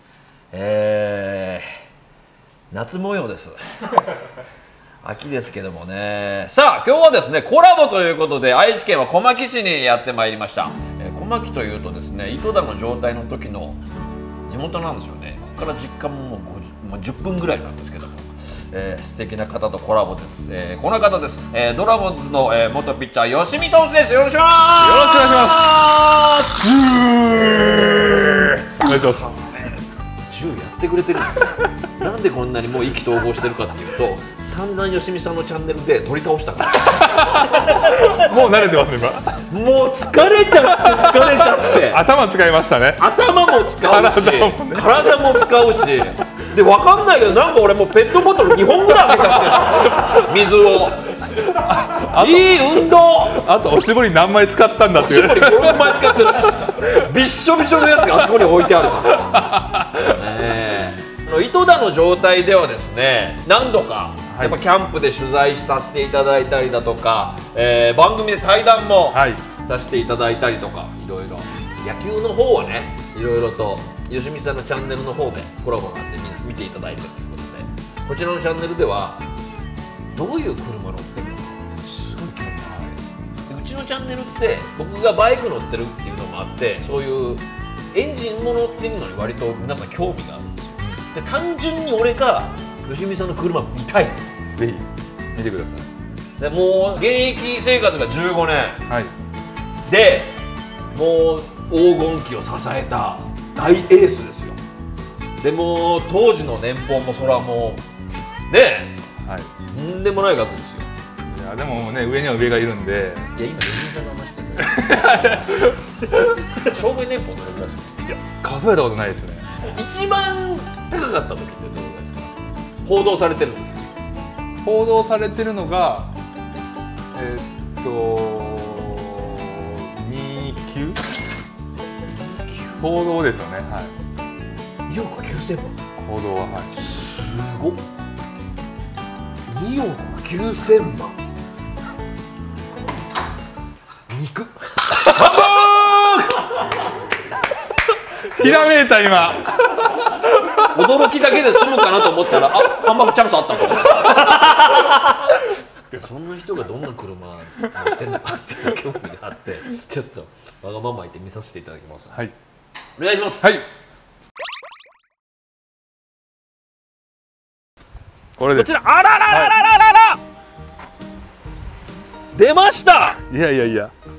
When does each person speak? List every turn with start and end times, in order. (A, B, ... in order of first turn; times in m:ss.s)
0:00.5-0:01.7 A
0:02.7-0:04.1 A
0:05.0-0:13.8 A
0:14.5-0:27.7 A
0:24.8-0:25.8 B
0:26.6-0:29.4 B
0:28.9-0:29.6 A
0:30.3-0:38.3 A
0:37.0-0:39.4 B
0:39.5-0:42.0 A
0:40.9-0:43.0 B
0:43.0-0:51.1 A
0:43.7-0:45.5 B
0:48.9-0:50.3 B
0:51.3-0:56.8 B
0:52.1-0:53.4 A
0:54.9-1:19.2 A
0:58.0-1:00.2 B
1:04.3-1:04.6 B
1:09.1-1:09.4 B
1:20.1-1:34.2 A
1:34.6-1:35.9 B
1:36.4-1:38.8 A
1:39.9-1:40.4 A
1:40.9-1:44.6 A
1:45.4-1:47.8 A
1:48.5-1:49.0 A
1:49.2-1:49.5 B
1:49.7-1:50.9 A
1:51.3-1:53.3 B
1:53.4-1:58.0 A
1:54.6-1:56.6 B
1:58.1-1:59.5 B
1:59.6-2:03.9 A
2:04.6-2:06.1 B
2:07.1-2:11.0 B
2:12.2-2:13.0 A
2:12.8-2:13.9 B
2:14.9-2:15.8 A
2:16.0-2:16.7 B
2:16.7-2:17.8 A
2:19.5-2:21.2 A
2:24.1-2:26.7 A
2:28.3-2:30.7 B
2:28.4-2:28.7 A
2:30.7-2:42.3 A
2:31.5-2:32.9 B
2:33.8-2:34.4 B
2:43.0-2:43.5 A
2:43.4-2:43.7 B
2:48.4-2:49.6 B
2:48.5-2:50.2 A
2:52.3-2:53.2 A
2:53.3-2:53.9 B